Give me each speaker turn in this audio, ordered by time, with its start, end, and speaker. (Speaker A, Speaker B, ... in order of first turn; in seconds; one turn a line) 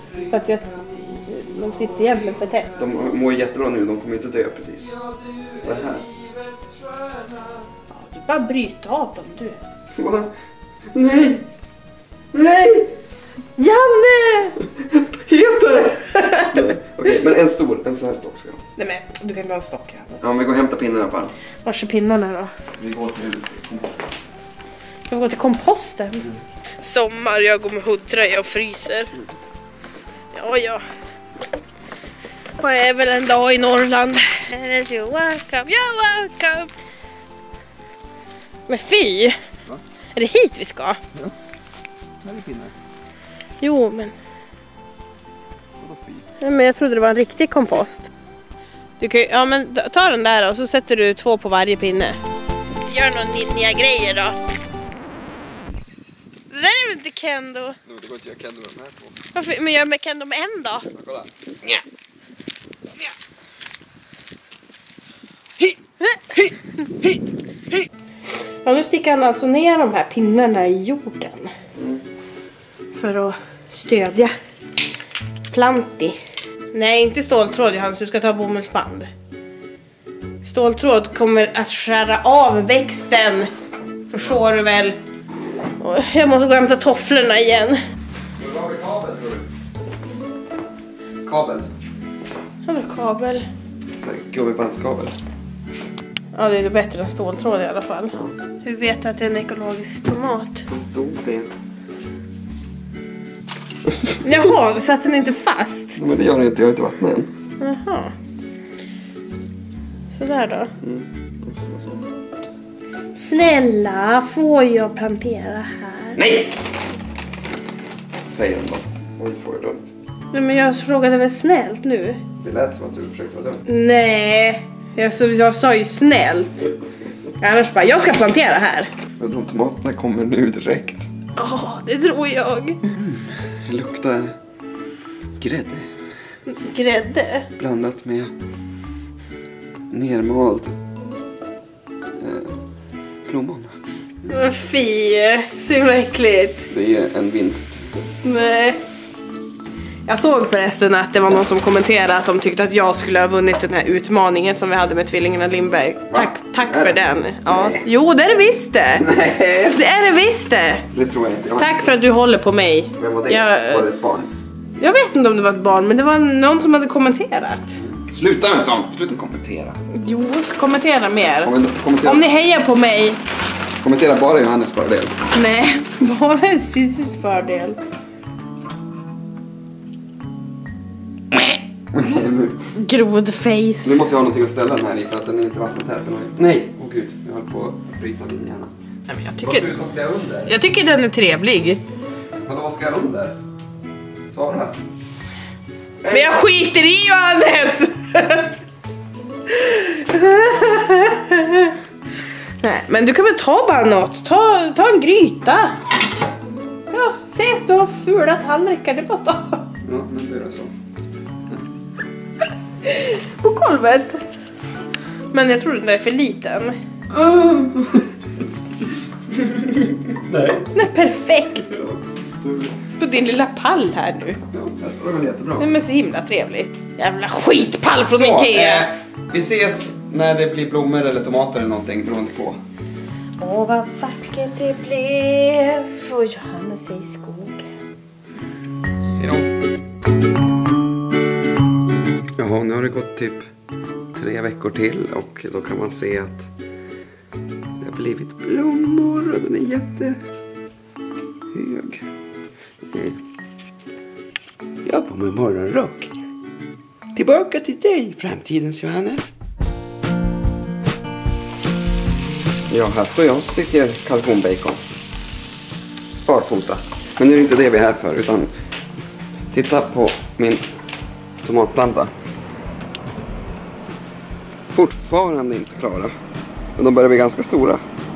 Speaker A: 0.3-2.7
Speaker B: 2.8-4.9
Speaker B: 5.6-6.1
Speaker A: 7.9-9.6
Speaker B: 9.9-10.3
Speaker B: 10.9-11.4
Speaker B: 12.3-12.9
Speaker A: 13.6-14.6
Speaker B: 14.7-18.6
Speaker A: 16.1-16.7
Speaker A: 18.8-20.2
Speaker B: 20.2-21.3
Speaker A: 21.6-22.5
Speaker B: 22.8-24.0
Speaker A: 25.1-29.1
Speaker A: 30.3-30.8
Speaker A: 32.6-36.7
Speaker A: 38.7-39.4
Speaker A: 40.1-41.0
Speaker B: 42.2-42.7
Speaker A: 43.6-44.1
Speaker B: 45.8-46.3
Speaker A: 46.4-48.1
Speaker A: 49.0-52.2
Speaker A: 52.9-54.4
Speaker A: 56.5-57.8
Speaker B: 57.9-59.3
Speaker A: 59.3-60.9
Speaker B: 60.9-61.8
Speaker A: 68.6-71.5
Speaker A: 72.9-74.3
Speaker A: 75.5-76.2
Speaker A: 76.7-79.1
Speaker A: 80.4-83.5
Speaker A: 84.1-85.0
Speaker A: 85.8-87.8
Speaker B: 88.4-89.5
Speaker B: 91.2-91.7
Speaker A: 92.6-93.4
Speaker B: 94.0-95.1
Speaker A: 96.3-100.6
Speaker B: 100.7-101.5
Speaker A: 104.2-106.0
Speaker B: 106.0-107.3
Speaker A: 107.6-108.1
Speaker A: 110.1-110.7
Speaker B: 110.8-112.0
Speaker A: 113.1-116.2
Speaker B: 116.2-116.5
Speaker B: 118.3-119.9
Speaker A: 120.3-122.2
Speaker B: 122.4-123.6
Speaker A: 123.7-126.6
Speaker A: 127.4-128.9
Speaker B: 129.2-131.1
Speaker A: 131.3-132.8
Speaker B: 132.8-134.3
Speaker B: 135.4-135.9
Speaker A: 136.5-137.5
Speaker B: 137.6-138.3
Speaker B: 139.9-140.7
Speaker B: 142.2-142.6
Speaker B: 143.2-143.7
Speaker A: 144.3-146.7
Speaker B: 146.7-147.8
Speaker A: 148.2-148.8
Speaker A: 150.1-159.1
Speaker B: 156.1-157.8
Speaker B: 158.9-159.8
Speaker A: 159.6-160.8
Speaker B: 160.9-161.9
Speaker A: 161.6-163.9
Speaker B: 162.9-164.3
Speaker A: 164.8-167.8
Speaker B: 167.8-169.8
Speaker A: 169.9-173.2
Speaker B: 171.4-172.2
Speaker B: 173.8-175.2
Speaker A: 175.3-177.8
Speaker B: 181.9-182.7
Speaker A: 182.7-184.1
Speaker B: 183.8-188.7
Speaker A: 189.1-189.7
Speaker B: 189.4-190.5
Speaker A: 190.4-191.8
Speaker B: 192.3-193.3
Speaker B: 194.3-194.8
Speaker B: 196.0-196.3
Speaker A: 196.1-198.5
Speaker A: 199.5-201.8
Speaker A: 202.6-205.8
Speaker A: 206.9-209.7
Speaker B: 209.8-210.7
Speaker A: 212.8-214.2
Speaker A: 215.3-216.8
Speaker B: 217.1-218.2
Speaker B: 218.8-220.8
Speaker A: 220.7-221.7
Speaker B: 221.7-222.7
Speaker A: 223.0-224.4
Speaker B: 224.5-225.7
Speaker A: 225.6-228.9
Speaker B: 228.0-232.6
Speaker A: 233.4-237.7
Speaker B: 239.2-239.5
Speaker B: 242.4-243.4
Speaker B: 244.1-246.5
Speaker B: 247.8-250.2
Speaker B: 251.5-252.1
Speaker B: 252.9-253.2
Speaker B: 254.8-256.1
Speaker B: 257.1-259.3
Speaker B: 262.7-264.9
Speaker B: 266.2-268.5
Speaker B: 269.5-270.6
Speaker B: 271.4-272.1
Speaker B: 274.7-276.1
Speaker B: 276.8-277.8